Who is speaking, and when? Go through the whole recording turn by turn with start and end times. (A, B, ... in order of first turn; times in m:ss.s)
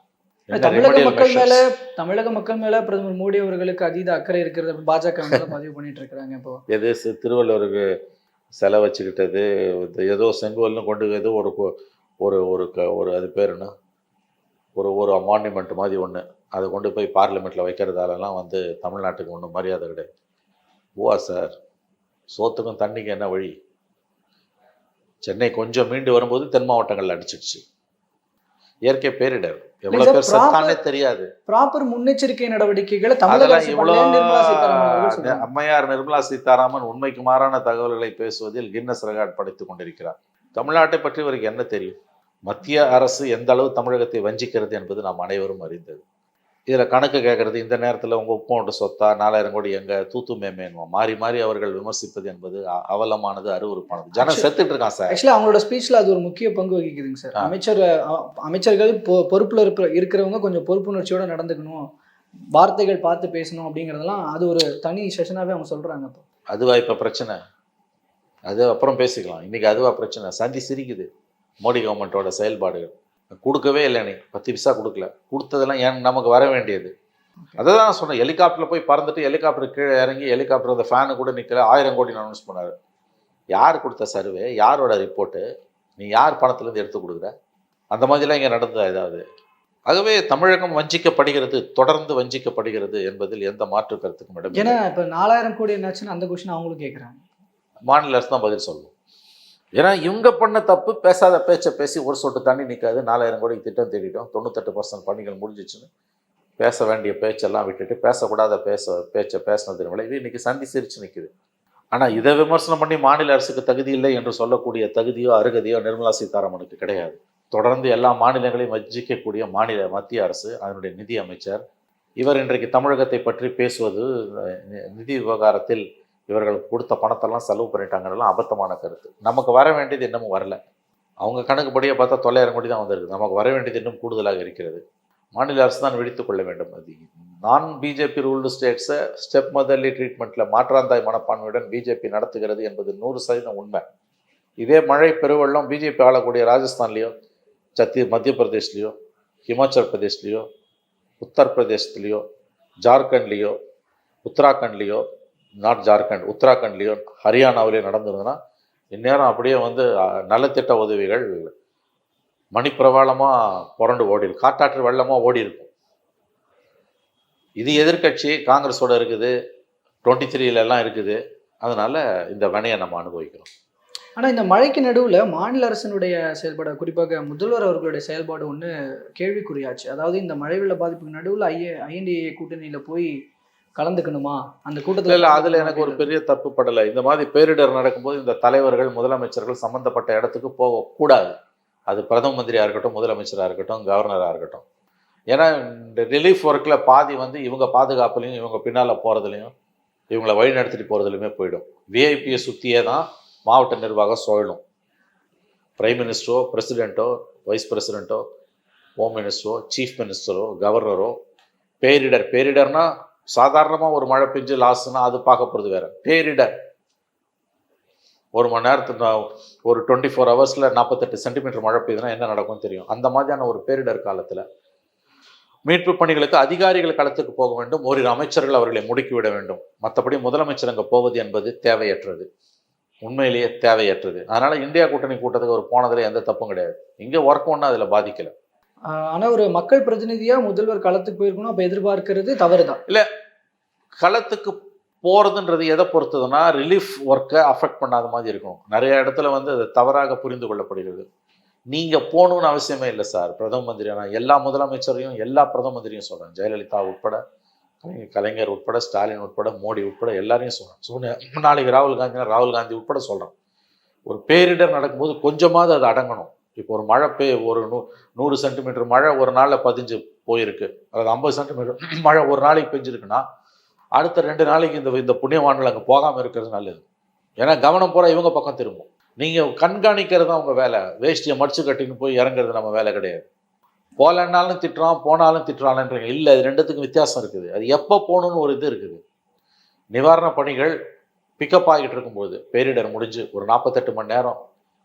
0:00.5-0:01.6 A
0:00.5-0:06.6 B
0:06.7-0:07.8 A
0:08.6-0:13.7 A
0:14.8-0:20.1 A
0:21.0-0:21.5 A
0:22.3-0:23.5 A
0:25.2-0:27.6 A
0:28.9-0:31.3 A
0:29.9-0:30.8 B
0:31.5-0:35.5 B
0:33.3-0:41.9 A
0:42.4-0:46.0 A
0:46.7-0:55.2 A
0:54.1-0:54.5 B
0:55.1-1:01.8 B
1:02.6-1:06.2 B
1:06.5-1:07.4 A
1:08.5-1:11.1 A
1:11.6-1:16.9 A
1:17.6-1:22.7 A
1:23.5-1:25.4 A
1:26.0-1:27.3 A
1:27.9-1:29.2 A
1:29.9-1:34.8 A
1:34.5-1:37.2 B
1:37.9-1:38.9 A
1:39.8-1:45.9 A
1:46.6-1:51.3 A
1:51.9-2:01.6 A
2:02.2-2:10.6 A
2:11.2-2:14.8 A
2:15.4-2:23.8 A
2:24.6-2:27.1 A
2:27.8-2:28.9 A
2:29.5-2:30.4 A
2:31.2-2:32.2 A
2:32.8-2:33.6 A
2:34.2-2:35.0 A
2:35.6-2:38.4 A
2:38.9-2:41.5 A
2:42.5-2:45.7 A
2:47.6-2:49.3 A
2:50.0-2:53.5 A
2:54.2-3:03.1 B
3:03.8-3:06.1 B
3:05.1-3:11.2 A
3:11.9-3:14.6 A
3:15.3-3:19.5 A
3:20.1-3:24.6 A
3:25.8-3:28.2 A
3:29.0-3:31.1 A
3:31.8-3:36.5 A
3:38.4-3:44.4 A
3:45.7-3:52.2 A
3:53.0-3:58.3 A
3:58.9-4:02.8 B
4:04.0-4:11.0 A
4:11.7-4:17.2 A
4:17.8-4:23.3 A
4:24.1-4:33.2 A
4:34.0-4:36.8 A
4:37.4-4:43.2 A
4:44.0-4:49.0 A
4:49.9-4:50.7 A
4:51.4-4:54.4 A